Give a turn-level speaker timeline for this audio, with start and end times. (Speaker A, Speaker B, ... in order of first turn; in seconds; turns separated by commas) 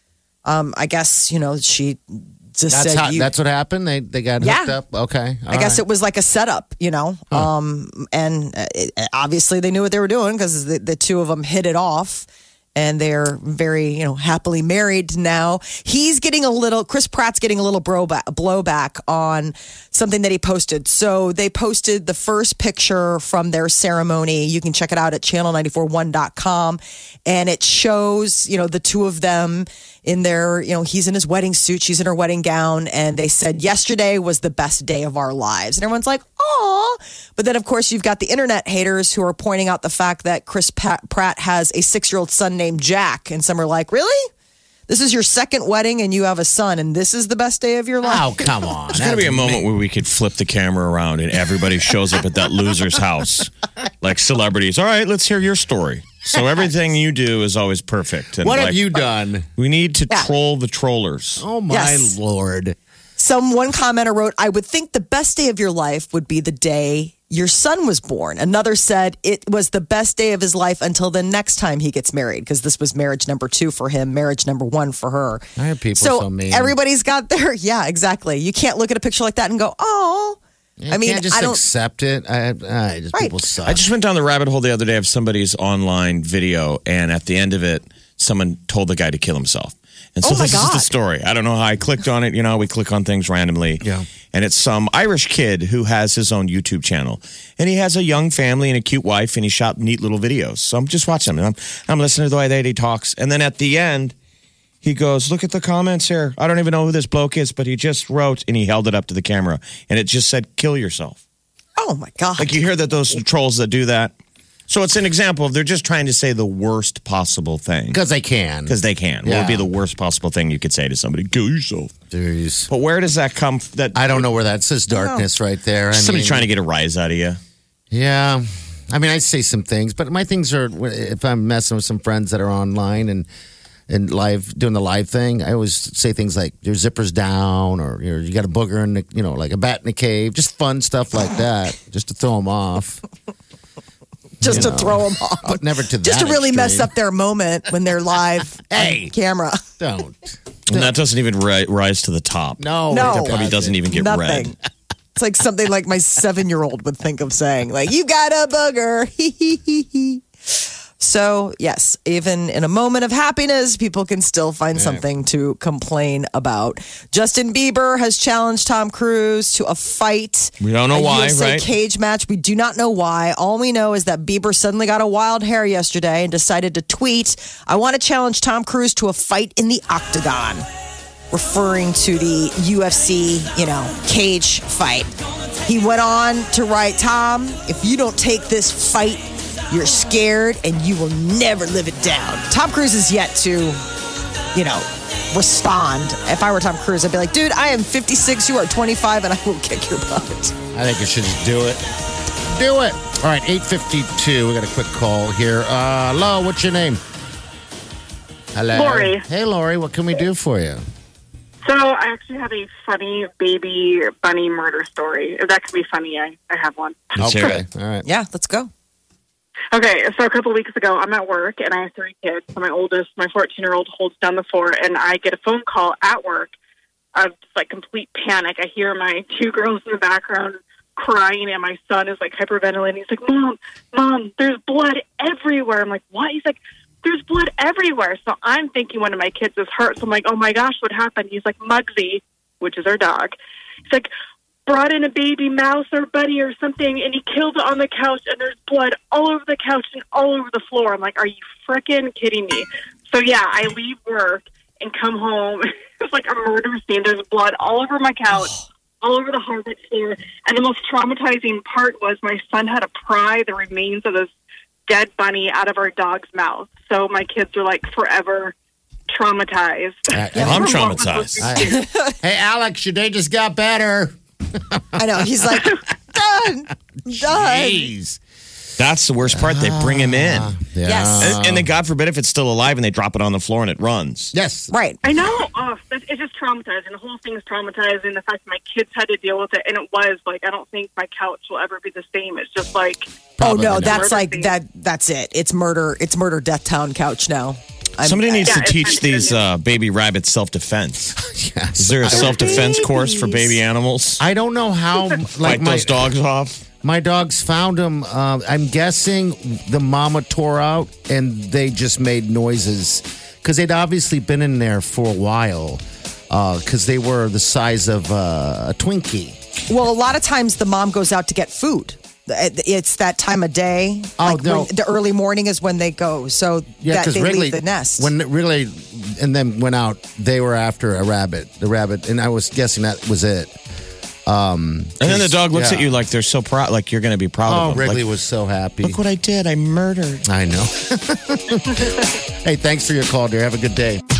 Speaker A: 0.4-3.3, Speaker B: 2.7-5.8, Speaker A: 4.4-4.8, Speaker A: 5.5-44.3, Speaker A: 44.9-48.3, Speaker B: 48.0-49.7, Speaker C: 48.9-59.0, Speaker B: 58.4-59.5, Speaker C: 59.6-61.4, Speaker B: 61.4-62.8, Speaker A: 61.7-62.1, Speaker A: 63.2-80.4, Speaker B: 75.6-76.7, Speaker B: 80.8-83.8, Speaker A: 80.9-81.6, Speaker C: 83.6-104.1, Speaker A: 90.2-90.9, Speaker B: 93.8-94.1, Speaker C: 104.8-111.2, Speaker A: 111.8-112.5, Speaker C: 112.4-114.1, Speaker C: 114.7-118.0, Speaker B: 117.9-119.7, Speaker C: 118.7-121.9, Speaker B: 122.1-122.7, Speaker C: 122.7-124.2, Speaker B: 123.9-126.5, Speaker A: 124.9-125.2, Speaker C: 125.9-127.4, Speaker B: 127.9-133.3, Speaker B: 133.9-143.0, Speaker B: 144.4-146.9, Speaker A: 144.4-149.6, Speaker B: 148.7-149.1, Speaker B: 149.8-150.9, Speaker C: 150.7-154.5, Speaker B: 152.6-153.8, Speaker A: 152.9-153.3, Speaker A: 153.9-154.6, Speaker A: 155.2-160.2, Speaker A: 161.0-180.7, Speaker B: 164.7-165.0, Speaker C: 170.6-171.7, Speaker A: 181.3-185.1, Speaker A: 185.7-193.8, Speaker A: 194.5-200.5, Speaker B: 200.7-201.8, Speaker B: 202.5-207.0, Speaker B: 208.5-210.8, Speaker D: 208.7-209.2, Speaker D: 211.6-217.2, Speaker B: 217.2-218.1, Speaker C: 217.2-217.6, Speaker A: 218.0-218.7, Speaker D: 219.7-226.5, Speaker D: 227.1-243.3, Speaker D: 244.7-264.3, Speaker D: 264.9-268.5, Speaker D: 269.1-271.8, Speaker B: 270.1-270.8, Speaker C: 270.3-271.6, Speaker B: 271.4-275.7, Speaker A: 271.6-272.1, Speaker A: 274.9-277.9, Speaker B: 277.1-278.2, Speaker C: 278.8-280.6, Speaker B: 279.3-281.7, Speaker A: 280.8-281.4, Speaker C: 281.2-284.3, Speaker B: 284.3-284.7, Speaker A: 284.7-285.0, Speaker D: 285.0-293.1, Speaker B: 293.4-294.2, Speaker A: 293.4-298.6, Speaker D: 293.8-294.5, Speaker C: 298.0-301.1, Speaker D: 298.4-299.4, Speaker B: 301.1-302.9, Speaker C: 301.8-304.2, Speaker A: 302.1-303.3, Speaker B: 304.2-306.0, Speaker C: 305.4-306.6, Speaker B: 306.8-319.4, Speaker A: 319.7-328.1, Speaker B: 324.2-324.7, Speaker B: 326.8-333.6, Speaker B: 334.2-335.9, Speaker C: 335.0-338.0, Speaker B: 337.4-339.0, Speaker C: 338.8-340.2, Speaker B: 340.2-344.0